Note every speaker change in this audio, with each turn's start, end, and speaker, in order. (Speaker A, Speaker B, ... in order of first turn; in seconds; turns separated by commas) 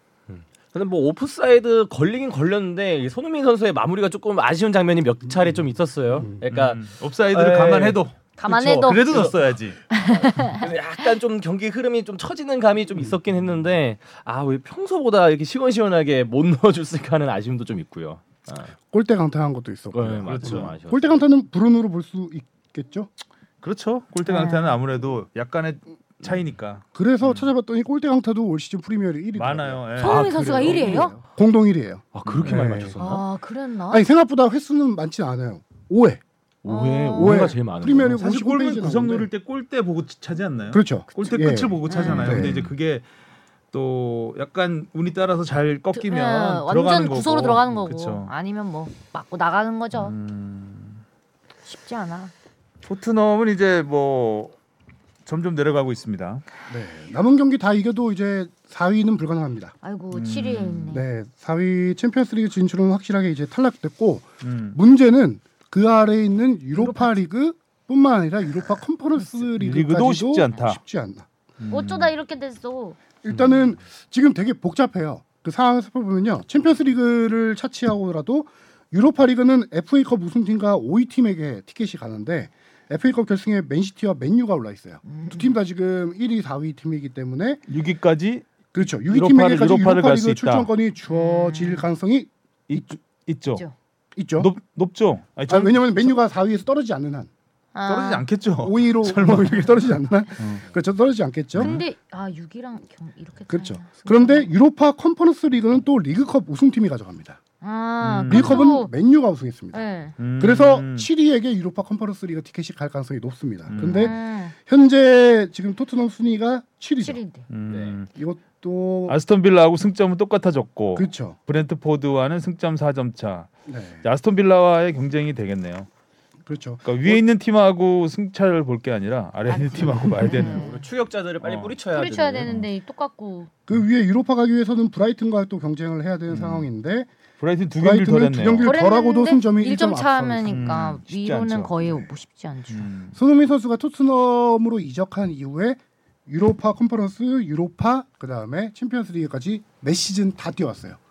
Speaker A: 0.3-18.7, Speaker B: 6.5-8.2, Speaker C: 8.4-9.2, Speaker B: 8.7-9.8, Speaker C: 9.9-11.1, Speaker D: 18.9-23.1, Speaker A: 19.9-21.2, Speaker B: 20.3-20.7, Speaker B: 23.6-27.5, Speaker C: 24.3-24.8, Speaker D: 26.9-33.0, Speaker B: 29.4-31.1, Speaker C: 30.0-31.1, Speaker A: 30.3-30.7, Speaker A: 32.1-33.2, Speaker B: 32.3-32.8, Speaker C: 33.0-34.0, Speaker D: 33.9-36.2, Speaker A: 36.6-38.2, Speaker C: 36.7-37.5, Speaker D: 37.1-39.3, Speaker B: 38.1-43.1, Speaker D: 40.7-42.7, Speaker C: 41.9-42.5, Speaker B: 43.7-48.3, Speaker C: 45.9-50.1, Speaker B: 50.0-51.0, Speaker C: 51.7-52.3, Speaker B: 52.8-54.5, Speaker B: 55.3-56.4, Speaker D: 56.7-59.8, Speaker C: 59.8-61.1, Speaker B: 60.1-61.0, Speaker D: 60.9-71.3, Speaker B: 64.4-64.8, Speaker C: 66.8-67.1, Speaker B: 69.5-70.8, Speaker B: 71.6-72.1, Speaker C: 71.7-73.0, Speaker D: 73.2-87.6, Speaker C: 85.1-85.5, Speaker B: 87.7-88.5, Speaker D: 88.7-92.8, Speaker B: 89.0-90.7, Speaker C: 91.1-91.9, Speaker B: 92.7-93.7, Speaker D: 94.2-94.5, Speaker B: 94.4-96.1, Speaker D: 95.5-97.3, Speaker C: 97.8-98.3, Speaker B: 97.9-100.6, Speaker D: 98.6-101.8, Speaker B: 101.5-101.8, Speaker C: 101.6-104.5, Speaker D: 103.5-107.4, Speaker C: 107.6-108.9, Speaker B: 108.0-108.6, Speaker D: 108.3-109.8, Speaker C: 109.7-110.2, Speaker B: 110.2-111.1, Speaker D: 110.4-117.2, Speaker B: 113.7-114.2, Speaker C: 113.8-114.5, Speaker C: 117.0-117.5, Speaker B: 117.5-118.1, Speaker A: 117.7-118.0, Speaker D: 118.1-119.2, Speaker B: 119.1-123.5, Speaker D: 121.0-121.4, Speaker D: 123.7-124.0, Speaker B: 124.0-125.9, Speaker D: 126.5-127.2, Speaker B: 126.8-130.7, Speaker C: 129.5-130.8, Speaker D: 129.8-130.5, Speaker A: 130.4-132.5, Speaker B: 131.4-131.8, Speaker C: 131.9-133.5, Speaker D: 133.7-137.1, Speaker B: 136.3-136.7, Speaker B: 137.4-138.7, Speaker D: 137.8-140.8, Speaker C: 138.6-142.9, Speaker B: 140.5-141.7, Speaker D: 141.8-142.1, Speaker B: 142.7-143.2, Speaker D: 143.1-151.0